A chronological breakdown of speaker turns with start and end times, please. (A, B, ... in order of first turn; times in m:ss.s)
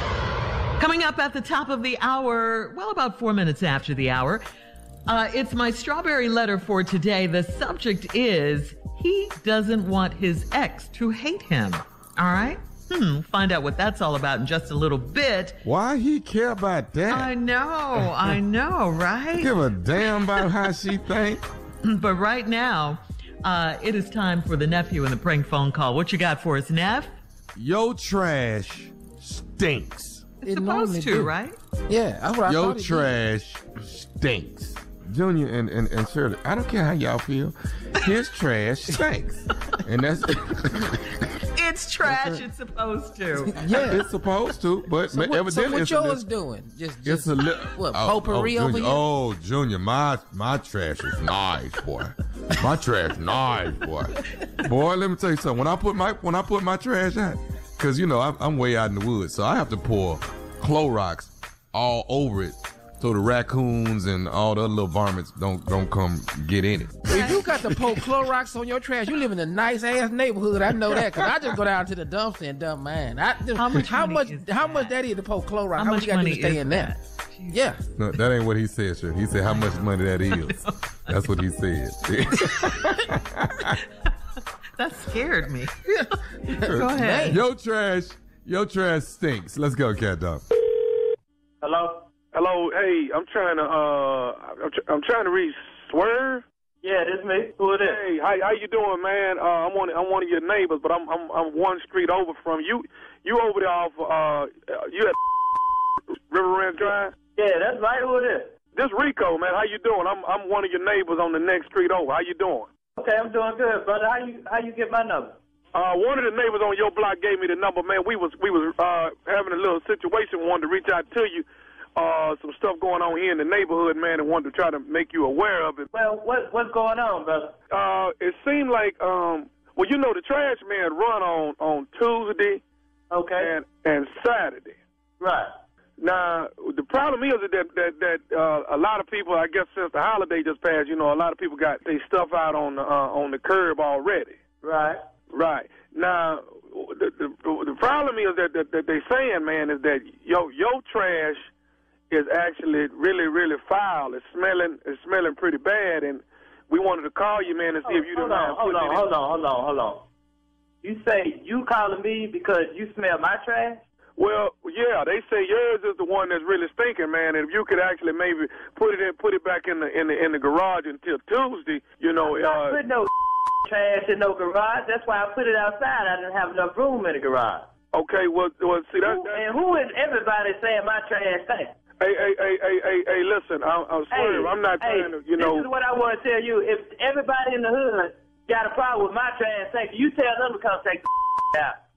0:00.8-0:04.4 A
0:05.1-0:15.6 A
0:15.6-0:17.3 B
0:17.1-0:20.5 A
0:19.4-0:21.4 B
0:21.8-0:27.2 A
0:27.6-0:30.4 B
0:30.4-0:31.6 A
0:30.5-0:31.3 C
0:31.9-0:33.1 C
0:32.4-0:41.2 B
0:41.6-0:43.8 A
0:42.1-0:42.4 C
0:43.5-0:44.1 C
0:43.7-0:46.3 B
0:45.1-0:49.0 C
0:47.0-1:07.9 B
1:07.1-1:17.0 C
1:07.1-1:07.4 A
1:13.5-1:15.0 A
1:15.7-1:17.7 A
1:17.5-1:17.8 C
1:18.0-1:23.7 B
1:19.5-1:21.3 A
1:22.4-1:23.0 A
1:24.8-1:27.4 A
1:26.5-1:27.4 C
1:26.6-1:30.4 B
1:31.6-1:32.0 D
1:32.3-1:36.4 E
1:36.8-1:38.0 D
1:37.8-1:45.2 E
1:46.3-1:47.2 E
1:46.8-1:48.5 D
1:48.7-1:52.7 E
1:53.0-1:55.3 D
1:55.7-2:05.9 E
2:05.9-2:07.5 D
2:07.7-2:12.6 E
2:13.1-2:13.5 D
2:13.4-2:14.8 E
2:15.2-2:15.5 D
2:16.0-2:24.4 E
2:24.6-2:25.0 D
2:25.3-2:31.5 E
2:32.1-2:39.1 E
2:37.8-2:40.0 D
2:40.8-2:43.8 D
2:44.2-2:52.8 E
2:52.2-2:53.1 D
2:53.6-2:57.6 D
2:57.9-2:59.4 E
2:59.0-3:01.7 D
3:02.0-3:05.7 E
3:04.1-3:11.7 D